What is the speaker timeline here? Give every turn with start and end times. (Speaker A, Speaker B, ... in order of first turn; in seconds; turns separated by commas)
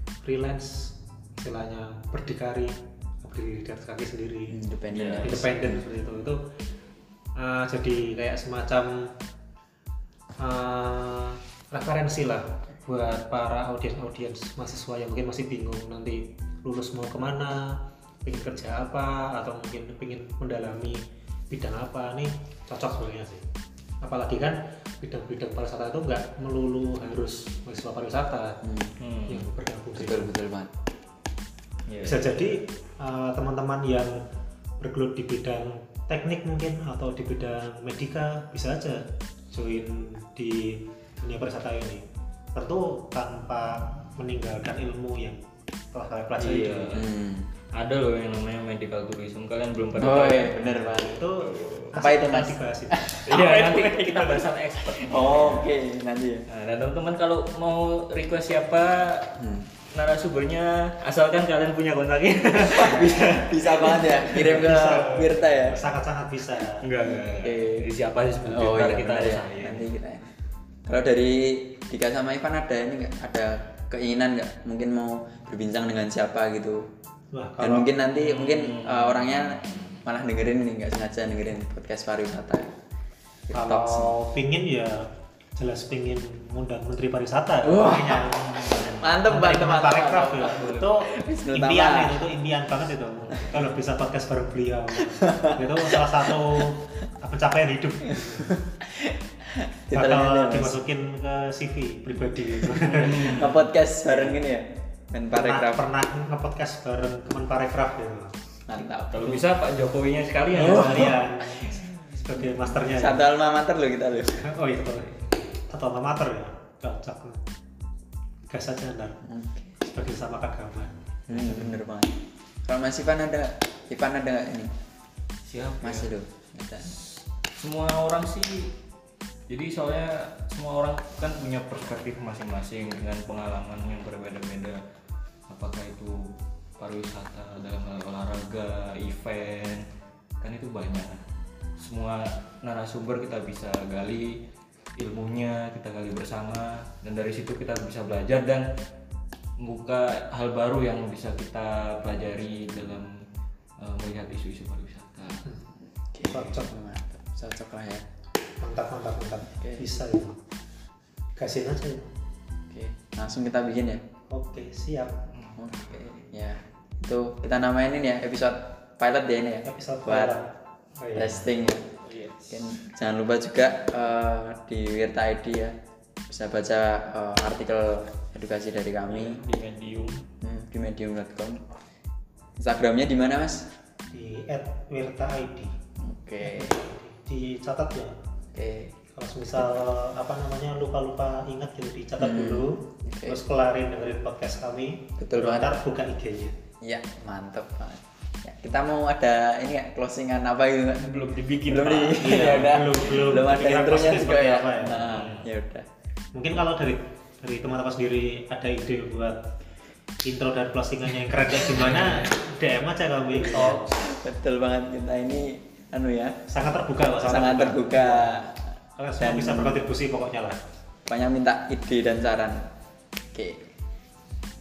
Speaker A: 0.2-4.6, Speaker B: 4.5-5.8, Speaker C: 4.9-5.5, Speaker A: 5.2-6.4, Speaker A: 7.4-9.1, Speaker A: 10.4-23.4, Speaker A: 24.0-28.6, Speaker B: 28.6-28.9, Speaker C: 29.0-29.5, Speaker A: 29.3-30.3, Speaker B: 29.9-30.7, Speaker C: 31.9-32.5, Speaker A: 32.0-34.2, Speaker A: 34.8-45.4, Speaker A: 45.9-47.0, Speaker C: 46.4-47.1, Speaker B: 46.9-47.5, Speaker C: 47.7-51.9, Speaker B: 50.0-51.2, Speaker A: 50.9-53.2, Speaker B: 52.0-56.5, Speaker C: 53.2-55.7, Speaker C: 56.5-59.3, Speaker B: 59.4-59.7, Speaker C: 59.9-65.8, Speaker B: 62.6-65.9, Speaker A: 64.5-66.9, Speaker C: 66.8-69.9, Speaker B: 67.0-67.8, Speaker B: 68.4-70.3, Speaker B: 70.8-76.8, Speaker A: 77.3-77.9, Speaker B: 77.6-82.7, Speaker C: 78.1-80.0, Speaker B: 83.5-84.1, Speaker A: 83.5-85.0, Speaker A: 85.5-98.6, Speaker B: 87.6-88.5, Speaker B: 89.0-92.2, Speaker B: 98.8-100.8, Speaker A: 99.9-103.5, Speaker B: 102.8-105.8, Speaker C: 103.0-103.6, Speaker A: 104.1-104.4, Speaker A: 105.3-108.4, Speaker B: 108.7-109.4, Speaker C: 109.1-111.2, Speaker A: 110.5-113.2, Speaker B: 110.6-111.0, Speaker B: 112.8-114.4, Speaker A: 114.3-115.1, Speaker A: 115.7-117.4, Speaker A: 118.5-119.2, Speaker B: 119.2-119.7, Speaker A: 119.8-121.8, Speaker B: 121.3-122.1, Speaker B: 122.7-124.7, Speaker C: 125.4-126.1, Speaker B: 125.8-126.9, Speaker C: 126.8-128.7, Speaker C: 129.5-134.8, Speaker C: 135.5-139.8, Speaker C: 140.4-141.2, Speaker C: 141.8-144.4, Speaker C: 145.0-148.7, Speaker C: 149.6-153.1, Speaker C: 153.8-155.4, Speaker B: 156.0-158.0, Speaker A: 156.3-156.7, Speaker A: 158.6-160.4, Speaker B: 159.6-159.8, Speaker A: 161.4-162.1, Speaker B: 162.7-164.0, Speaker A: 164.3-165.2, Speaker C: 165.3-165.9, Speaker B: 165.6-170.4, Speaker A: 169.7-171.5, Speaker B: 171.1-171.9, Speaker C: 172.0-172.7, Speaker B: 172.5-175.7, Speaker B: 176.3-179.4, Speaker C: 179.1-180.2, Speaker B: 180.4-181.6, Speaker B: 182.6-183.7, Speaker A: 184.1-185.8, Speaker B: 186.0-186.8, Speaker A: 186.4-188.1, Speaker B: 188.5-188.9, Speaker A: 189.1-196.6, Speaker B: 192.2-193.4, Speaker B: 195.2-195.8, Speaker B: 196.8-205.9, Speaker C: 201.0-203.4, Speaker A: 202.2-205.2, Speaker C: 204.9-205.5, Speaker A: 206.3-209.5, Speaker A: 210.2-213.9, Speaker C: 211.7-212.3, Speaker B: 213.3-216.3, Speaker A: 216.5-218.4, Speaker B: 217.2-218.6, Speaker A: 218.9-220.6, Speaker B: 219.2-219.8, Speaker B: 221.1-222.6, Speaker B: 223.3-223.7